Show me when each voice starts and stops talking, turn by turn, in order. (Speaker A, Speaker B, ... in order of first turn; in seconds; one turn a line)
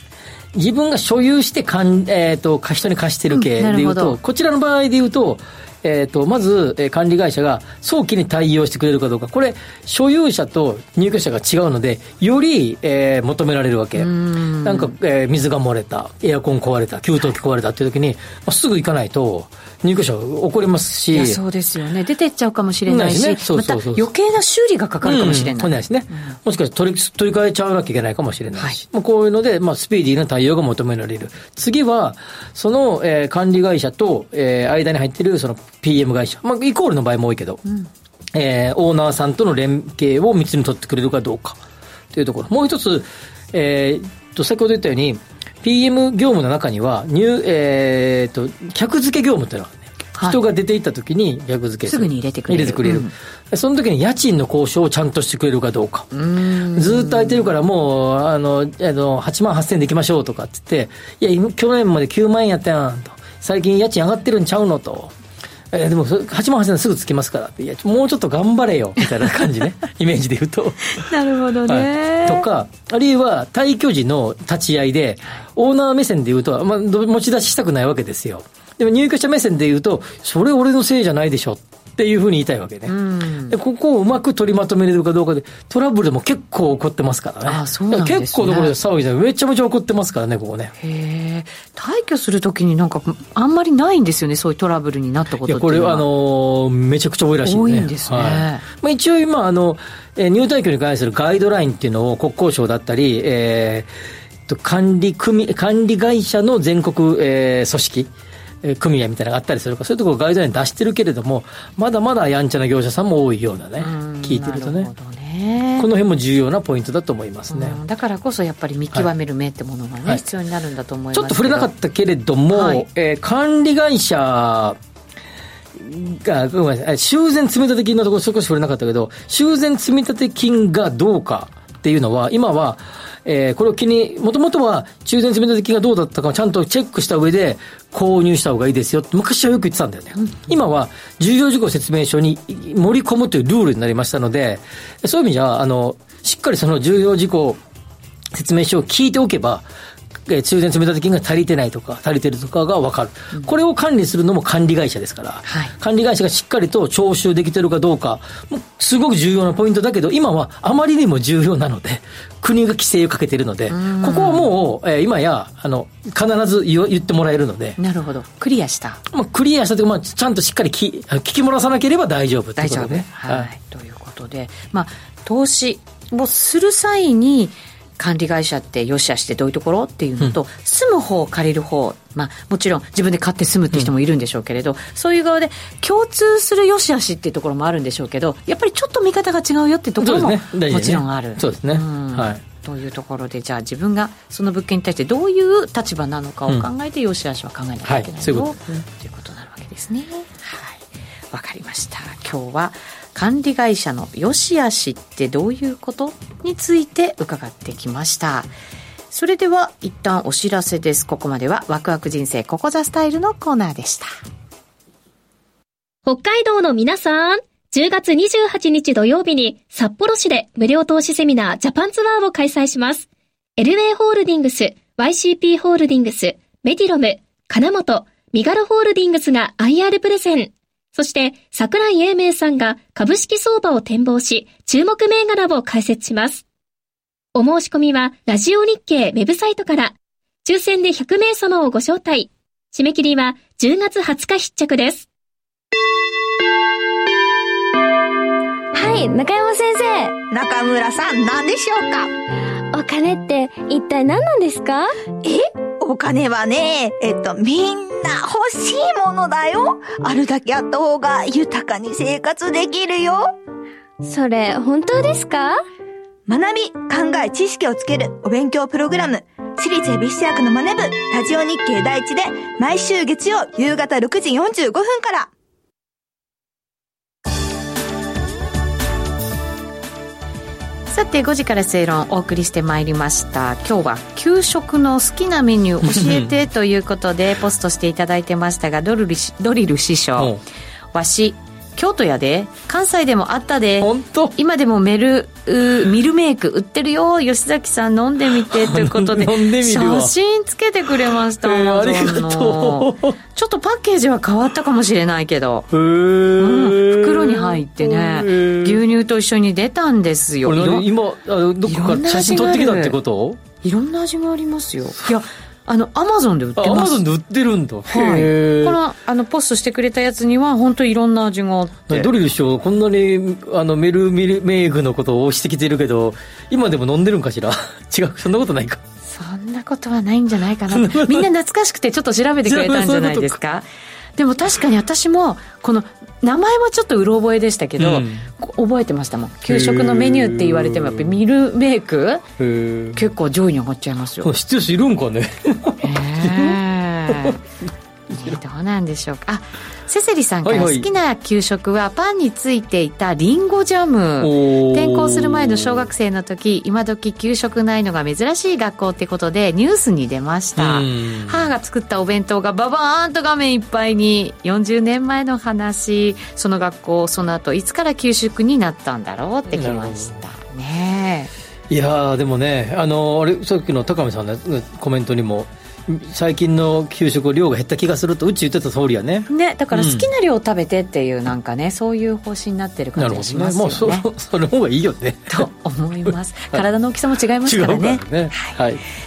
Speaker A: 0.5-21.4
Speaker B: 3.3-4.2
Speaker B: 14.0-14.9
Speaker B: 21.1-26.3
Speaker A: 22.9-24.1
Speaker A: 25.0-37.6
Speaker A: 38.3-41.6
Speaker A: 42.1-56.1
Speaker B: 51.9-53.1
Speaker B: 56.1-57.5
Speaker A: 56.7-65.1
Speaker A: 65.7-71.1
Speaker B: 71.0-72.5
Speaker A: 71.6-82.9
Speaker B: 82.8-83.5
Speaker A: 83.5-90.7
Speaker B: 87.4-88.7
Speaker B: 90.8-96.0
Speaker A: 95.5-103.9
Speaker B: 97.4-98.6
Speaker A: 104.5-108.1
Speaker A: 108.6-114.9
Speaker B: 113.8-115.9
Speaker A: 115.8-117.8
Speaker B: 117.5-121.7
Speaker A: 121.1-124.8
Speaker B: 122.5-122.8
Speaker A: 125.7-147.6
Speaker A: 148.3-149.7
Speaker A: 150.3-167.8
Speaker B: 155.5-155.7
Speaker B: 163.7-164.5
Speaker B: 167.8-169.0
Speaker A: 169.1-173.5
Speaker B: 172.6-208.5
Speaker A: 190.0-192.4
Speaker A: 197.8-198.8
Speaker B: 209.1-214.1
Speaker C: 216.1-223.1
Speaker C: 223.6-236.4
Speaker C: 237.3-245.1
Speaker D: 248.7-250.1
Speaker E: 250.3-252.1
Speaker D: 252.7-254.9
Speaker E: 255.2-263.3
Speaker D: 264.0-265.6
Speaker E: 266.3-275.3
Speaker B: 280.9-290.3
Speaker A: 285.8-286.3
Speaker B: 290.9-305.7
Speaker A: 293.8-294.4
Speaker A: 298.5-300.1
Speaker A: 301.4-303.1
Speaker A: 305.7-308.8
Speaker B: 306.4-310.9
Speaker A: 310.4-313.4
Speaker B: 311.6-312.9
Speaker B: 313.6-317.0
Speaker A: 316.6-318.8
Speaker B: 317.9-322.1
Speaker A: 321.9-328.8
Speaker B: 329.0-333.6
Speaker A: 330.7-331.3
Speaker A: 332.4-333.4
Speaker B: 334.2-342.2
Speaker A: 337.8-338.3
Speaker A: 339.5-341.2
Speaker A: 342.4-343.1
Speaker B: 342.9-344.3
Speaker A: 344.2-347.4
Speaker B: 345.8-347.4
Speaker B: 348.1-371.3
Speaker A: 350.4-350.9
Speaker A: 354.2-355.9
Speaker A: 360.6-361.5
Speaker A: 369.5-370.1
Speaker A: 371.7-380.1
Speaker B: 379.2-384.0
Speaker A: 382.9-385.5
Speaker B: 385.3-388.5
Speaker A: 387.4-388.8